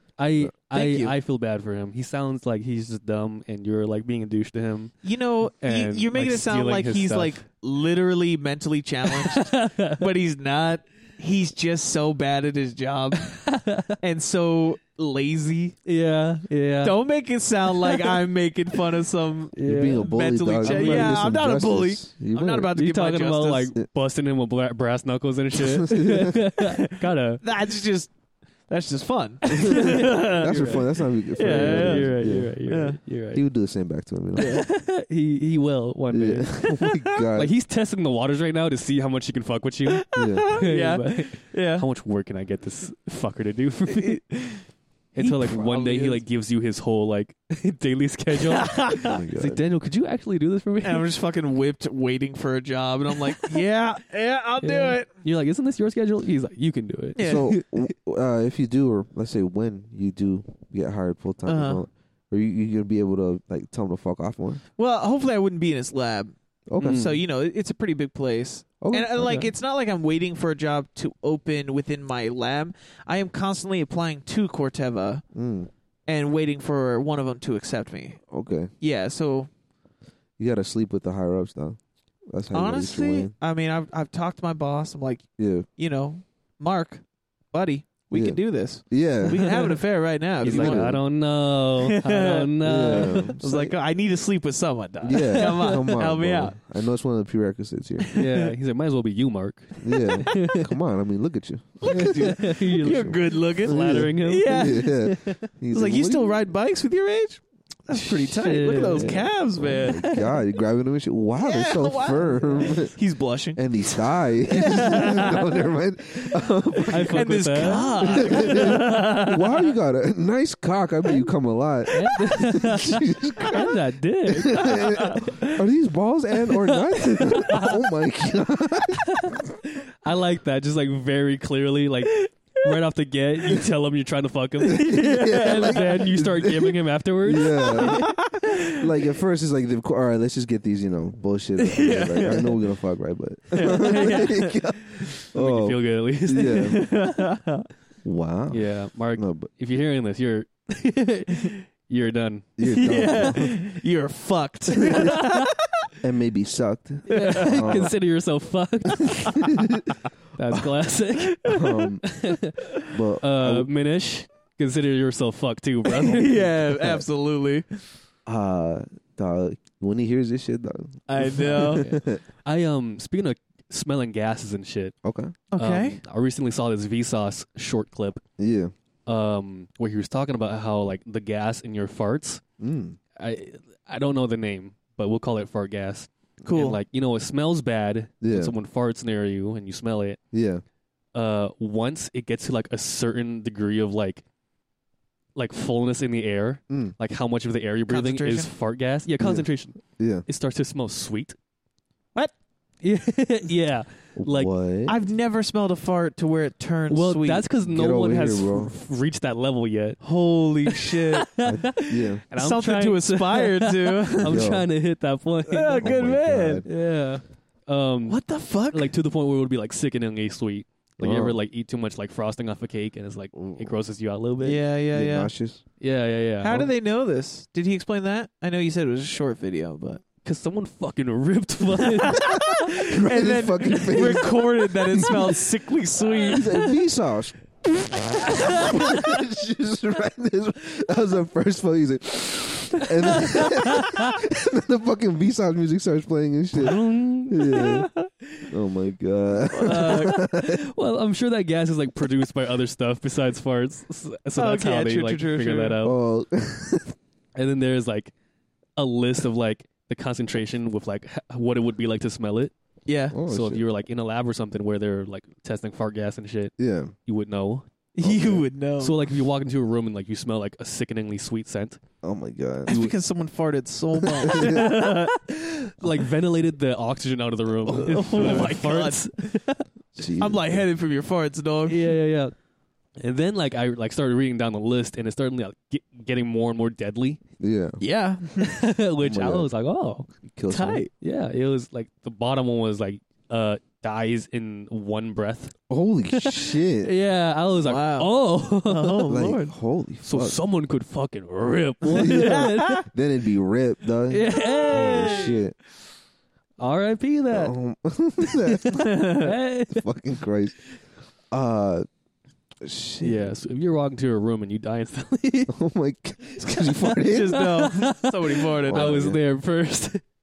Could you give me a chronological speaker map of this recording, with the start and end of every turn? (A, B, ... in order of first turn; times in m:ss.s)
0:00.2-0:07.4 A
0:00.7-0:01.1 B
0:05.0-0:13.4 B
0:09.1-0:10.0 A
0:13.2-0:14.0 A
0:14.0-0:15.8 B
0:15.8-0:17.0 A
0:16.8-0:23.7 B
0:17.7-0:18.2 A
0:19.5-0:21.2 A
0:19.6-0:22.7 C
0:22.7-0:27.4 A
0:25.6-0:26.4 C
0:26.6-0:28.1 B
0:28.7-0:33.0 B
0:29.4-0:33.4 A
0:29.5-0:32.6 C
0:33.3-0:34.5 C
0:34.4-0:34.6 B
0:34.4-0:36.7 A
0:36.1-0:37.5 C
0:37.3-0:44.2 A
0:39.9-0:41.8 B
0:40.1-0:40.5 C
0:43.9-0:44.6 B
0:45.1-0:51.1 A
0:45.2-0:46.2 B
0:48.3-0:49.2 B
0:49.0-0:49.6 C
0:50.8-0:55.1 B
0:53.3-0:53.6 A
0:54.6-0:57.9 A
0:57.2-0:57.5 B
0:57.2-1:04.6 C
1:01.4-1:01.8 B
1:04.8-1:15.2 B
1:06.7-1:07.1 C
1:06.8-1:07.2 A
1:08.8-1:09.5 C
1:15.3-1:15.7 C
1:16.1-1:18.2 B
1:18.3-1:18.7 C
1:18.8-1:19.5 B
1:20.4-1:21.8 C
1:22.3-1:23.3 C
1:22.5-1:25.2 B
1:25.4-1:25.7 C
1:25.8-1:31.0 B
1:28.1-1:29.5 C
1:30.4-1:31.0 C
1:30.4-1:33.3 A
1:31.8-1:36.6 B
1:32.6-1:33.7 C
1:35.0-1:38.1 C
1:35.3-1:35.8 A
1:38.0-1:38.5 B
1:38.1-1:40.7 A
1:39.8-1:46.4 C
1:39.9-1:40.5 B
1:41.8-1:45.0 B
1:41.8-1:45.4 A
1:45.7-1:50.0 B
1:47.9-1:50.3 A
1:49.6-1:52.9 C
1:51.4-1:55.5 B
1:53.6-2:03.8 C
1:56.9-1:58.9 A
1:57.1-1:59.4 B
2:01.9-2:05.5 A
2:04.3-2:09.4 C
2:04.5-2:05.2 B
2:06.7-2:07.8 A
2:09.0-2:18.0 A
2:14.7-2:16.0 B
2:14.7-2:26.8 C
2:17.6-2:18.8 B
2:21.6-2:22.6 B
2:23.5-2:24.5 B
2:23.8-2:24.3 A
2:25.2-2:27.0 A
2:26.6-2:27.6 B
2:28.0-2:29.5 C
2:28.5-2:33.4 A
2:32.6-2:33.5 C
2:32.6-2:35.7 B
2:34.9-2:35.4 A
2:36.0-2:37.9 C
2:37.1-2:39.8 A
2:37.1-2:37.8 B
2:39.2-2:39.7 B
2:39.5-2:39.8 C
2:40.3-2:46.5 A
2:41.4-2:42.1 C
2:42.9-2:43.7 C
2:45.8-2:47.6 B
2:48.2-2:52.2 C
2:51.1-2:51.9 B
2:51.5-2:54.9 A
2:55.0-2:55.4 C
2:55.5-2:56.0 B
2:55.5-2:58.2 A
2:58.4-2:58.7 C
2:59.0-3:02.4 A
3:02.6-3:03.0 C
3:03.2-3:10.2 A
3:06.4-3:06.8 B
3:08.2-3:08.5 C
3:10.3-3:10.6 C
3:11.1-3:14.2 A
3:15.3-3:21.4 A
3:16.7-3:16.9 C
3:17.9-3:18.5 B
3:19.2-3:20.2 C
3:22.8-3:24.5 A
3:24.2-3:25.0 C
3:24.9-3:27.4 B
3:26.9-3:30.0 A
3:27.6-3:28.7 C
3:30.0-3:31.3 B
3:30.6-3:35.9 A
3:31.4-3:32.2 C
3:32.3-3:34.5 B
3:34.2-3:34.7 C
3:35.5-3:36.6 B
3:35.8-3:36.7 C
3:36.6-3:44.6 A
3:38.1-3:38.9 B
3:41.0-3:41.4 C
3:43.3-3:43.7 C
3:44.4-3:45.3 B
3:44.9-3:45.6 C
3:45.8-3:46.7 A
3:46.4-3:50.0 B
3:50.2-3:52.6 A
3:51.8-3:56.7 B
3:52.8-3:55.3 C
3:56.2-3:56.5 A
3:56.3-4:07.9 C
3:58.3-3:58.8 A
4:03.2-4:04.1 A
4:06.5-4:07.7 A
4:07.4-4:08.1 B
4:08.5-4:10.6 C
4:09.5-4:10.2 B
4:09.6-4:16.0 A
4:14.4-4:15.8 B
4:15.8-4:17.0 C
4:17.3-4:18.1 A
4:18.8-4:22.5 A
4:22.8-4:23.2 B
4:23.1-4:23.6 C
4:23.2-4:26.5 A
4:26.6-4:26.9 C
4:27.0-4:27.6 A
4:27.9-4:29.1 B
4:28.0-4:28.4 C
4:28.8-4:31.8 A
4:32.0-4:32.8 C
4:32.7-4:35.1 B
4:34.2-4:39.6 A
4:34.3-4:34.7 C
4:37.6-4:38.5 C
4:37.8-4:39.3 B
4:40.0-4:40.6 C
4:40.2-4:41.8 B
4:41.7-4:42.3 A
4:43.0-4:47.2 A
4:47.4-4:47.8 C
4:47.8-4:48.6 B
4:48.4-4:50.1 A
4:49.0-4:49.5 C
4:50.3-4:50.8 C
4:50.5-4:50.9 B
4:51.0-4:55.5 A
4:55.7-4:56.9 C
4:56.1-4:59.1 A
4:57.6-4:58.1 B
4:58.6-4:59.5 B
4:59.1-5:00.4 C
5:00.0-5:02.8 A
5:01.9-5:05.5 C
5:01.9-5:02.8 B
5:04.1-5:05.4 A
5:04.8-5:05.0 B
5:06.6-5:07.5 A
5:07.3-5:09.0 C
5:08.2-5:09.9 A
5:08.7-5:09.3 B
5:09.7-5:10.6 C
5:11.3-5:11.8 C
5:12.6-5:13.3 C
5:13.0-5:15.5 A
5:15.5-5:17.5 C
5:17.0-5:19.0 B
5:17.3-5:20.0 A
5:18.7-5:19.2 C